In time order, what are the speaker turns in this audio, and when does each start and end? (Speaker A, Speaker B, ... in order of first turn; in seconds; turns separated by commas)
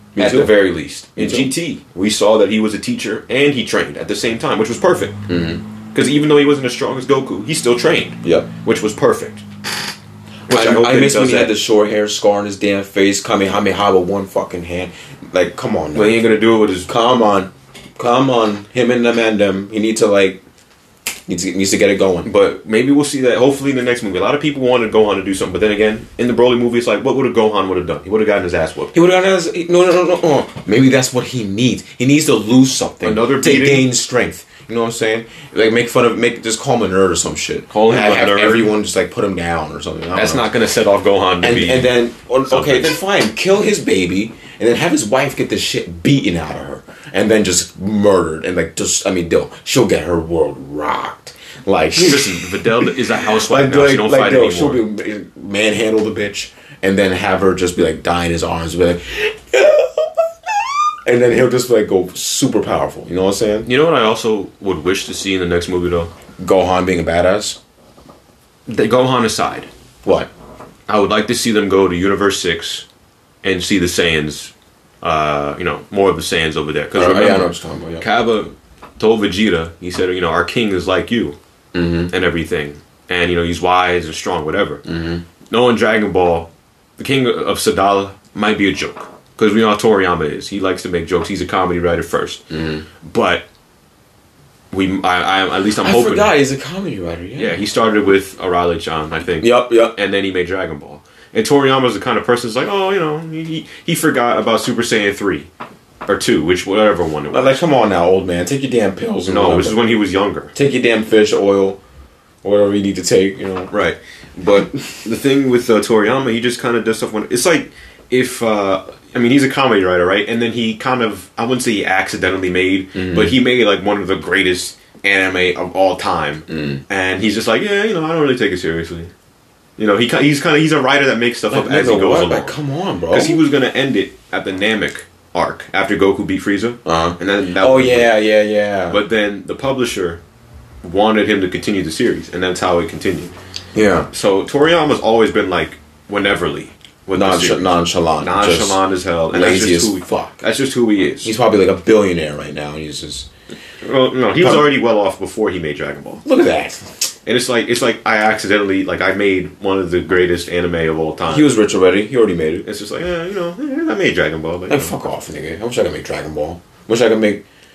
Speaker A: 0.1-1.5, Speaker B: 0.2-5.2, Speaker A: 5.3-5.6, Speaker B: 5.9-9.4, Speaker A: 8.2-8.5, Speaker A: 10.5-16.3, Speaker B: 10.5-11.6, Speaker B: 15.9-16.9, Speaker A: 16.9-20.4, Speaker A: 21.3-22.3, Speaker B: 22.2-28.9, Speaker A: 28.9-40.5, Speaker B: 33.0-33.9, Speaker B: 37.7-38.7, Speaker B: 40.1-42.0, Speaker A: 41.4-63.7, Speaker B: 42.5-43.0, Speaker B: 52.0-54.8, Speaker B: 63.6-66.1, Speaker A: 66.4-67.6, Speaker B: 68.7-69.7, Speaker A: 70.0-70.3, Speaker B: 70.9-72.8, Speaker B: 73.4-81.4, Speaker A: 76.9-78.1, Speaker A: 81.7-82.1, Speaker B: 82.1-84.8, Speaker A: 84.8-85.2, Speaker B: 85.5-92.4, Speaker A: 92.5-92.9, Speaker B: 93.0-93.5, Speaker B: 94.7-96.3, Speaker A: 95.8-97.6, Speaker B: 97.4-105.5, Speaker A: 99.4-99.9, Speaker B: 106.1-107.6, Speaker A: 107.3-109.8, Speaker B: 109.3-110.5, Speaker A: 110.5-111.8, Speaker A: 112.4-113.7, Speaker B: 113.7-129.1, Speaker A: 114.4-115.1, Speaker A: 122.9-123.3, Speaker A: 126.5-126.8, Speaker B: 129.8-132.5, Speaker A: 131.5-133.4, Speaker B: 133.1-138.2, Speaker A: 136.8-139.0, Speaker B: 138.9-140.2, Speaker B: 140.8-143.3, Speaker A: 143.8-144.1, Speaker B: 144.1-151.3, Speaker A: 147.1-150.4, Speaker A: 151.2-153.3, Speaker B: 153.8-156.2, Speaker A: 154.4-154.8, Speaker A: 156.2-157.0, Speaker B: 157.2-161.5, Speaker A: 161.3-162.7, Speaker B: 162.7-164.9, Speaker A: 164.7-167.4